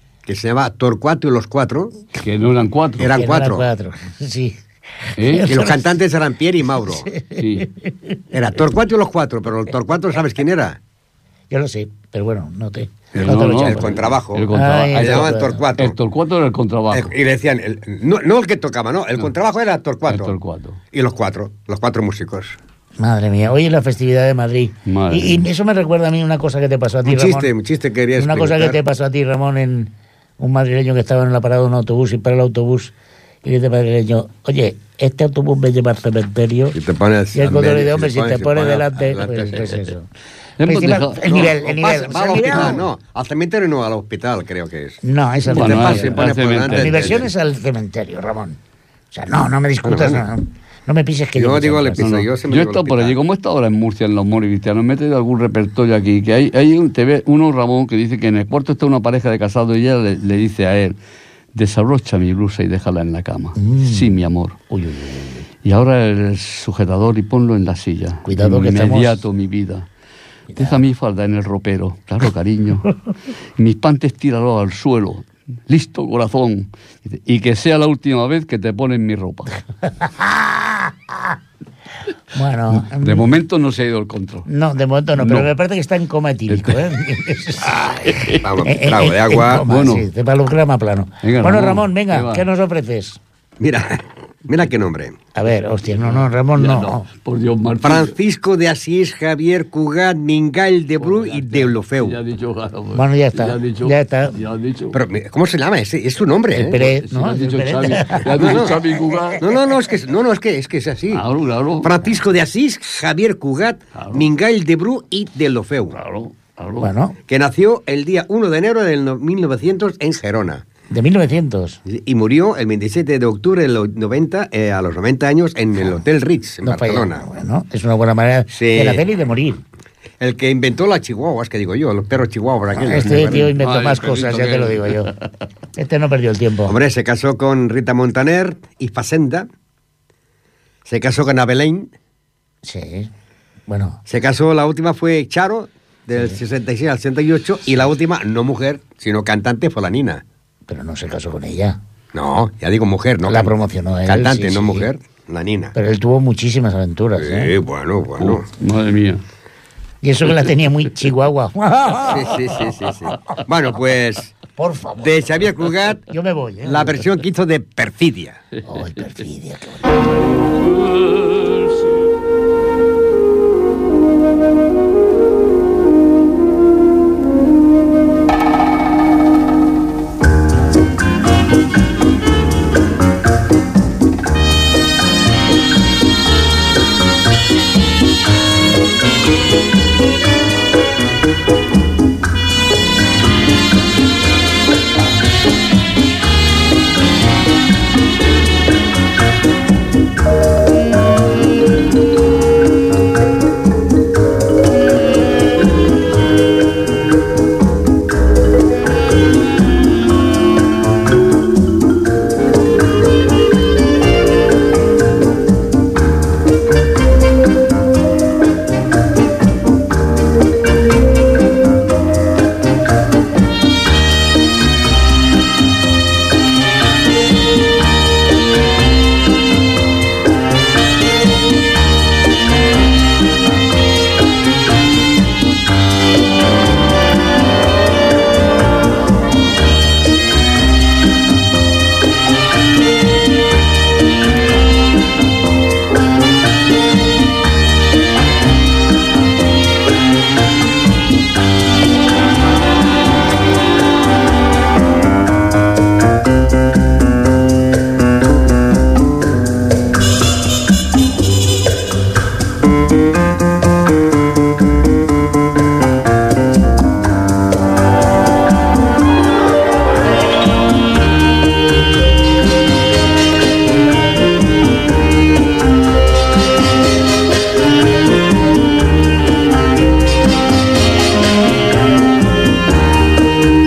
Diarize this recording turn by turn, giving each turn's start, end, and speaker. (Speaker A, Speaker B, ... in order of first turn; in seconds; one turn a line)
Speaker A: 0.2-1.9
Speaker B: 2.1-3.1
Speaker A: 3.0-3.6
Speaker C: 3.1-4.6
Speaker B: 5.2-5.5
Speaker C: 5.2-5.9
Speaker A: 5.5-7.1
Speaker C: 7.0-8.2
Speaker B: 7.4-7.7
Speaker A: 8.3-10.8
Speaker C: 11.5-14.0
Speaker A: 13.1-15.9
Speaker B: 13.2-17.1
Speaker C: 14.5-15.6
Speaker A: 16.9-20.3
Speaker B: 20.1-20.8
Speaker A: 20.9-22.6
Speaker C: 23.0-27.5
Speaker B: 24.9-25.4
Speaker A: 27.1-28.8
Speaker C: 28.2-32.9
Speaker C: 33.4-36.8
Speaker A: 36.7-39.8
Speaker C: 37.3-40.0
Speaker B: 40.6-41.5
Speaker C: 40.6-42.8
Speaker A: 41.2-47.3
Speaker C: 45.0-48.6
Speaker B: 45.5-47.2
Speaker C: 49.1-52.1
Speaker A: 49.8-50.2
Speaker A: 51.4-53.1
Speaker B: 52.0-61.0
Speaker B: 61.5-64.6
Speaker C: 63.6-64.2
Speaker C: 64.7-65.4
Speaker B: 65.6-69.8
Speaker C: 68.2-69.2
Speaker B: 70.6-72.9
Speaker B: 73.6-79.5
Speaker C: 80.0-81.3
Speaker C: 82.3-83.3
Speaker B: 82.7-84.5
Speaker C: 84.5-93.2
Speaker B: 85.2-85.5
Speaker B: 86.5-86.9
Speaker B: 87.8-88.4
Speaker A: 88.3-89.6
Speaker B: 89.7-90.0
Speaker B: 91.2-92.4
Speaker A: 93.6-95.2
Speaker C: 95.3-97.0
Speaker B: 95.9-98.1
Speaker A: 97.8-102.2
Speaker B: 101.0-105.0
Speaker C: 102.9-104.3
Speaker A: 104.9-106.9
Speaker C: 106.5-108.7
Speaker B: 106.7-109.4
Speaker A: 108.3-108.7
Speaker A: 109.4-111.2
Speaker B: 111.1-111.9
Speaker A: 111.8-116.0
Speaker B: 113.9-114.2
Speaker B: 115.9-116.9
Speaker C: 116.8-117.2
Speaker A: 117.3-120.6
Speaker C: 120.9-121.8
Speaker A: 121.8-127.2
Speaker C: 126.6-129.6
Speaker A: 128.5-129.0
Speaker A: 130.2-133.5
Speaker C: 132.7-135.1
Speaker B: 133.1-135.2
Speaker C: 135.8-136.7
Speaker A: 136.7-139.5
Speaker A: 140.8-141.9
Speaker C: 142.6-143.1
Speaker C: 143.7-144.0
Speaker A: 144.1-150.2
Speaker C: 150.7-151.8
Speaker A: 152.1-153.5
Speaker C: 153.3-154.9
Speaker A: 154.1-155.7
Speaker C: 155.8-157.5
Speaker A: 157.2-158.4
Speaker B: 158.2-159.2
Speaker C: 160.0-162.4
Speaker A: 162.1-164.3
Speaker C: 164.6-165.4
Speaker A: 165.0-166.0
Speaker C: 166.1-167.0
Speaker A: 166.6-168.4
Speaker C: 168.7-169.8
Speaker B: 170.7-171.6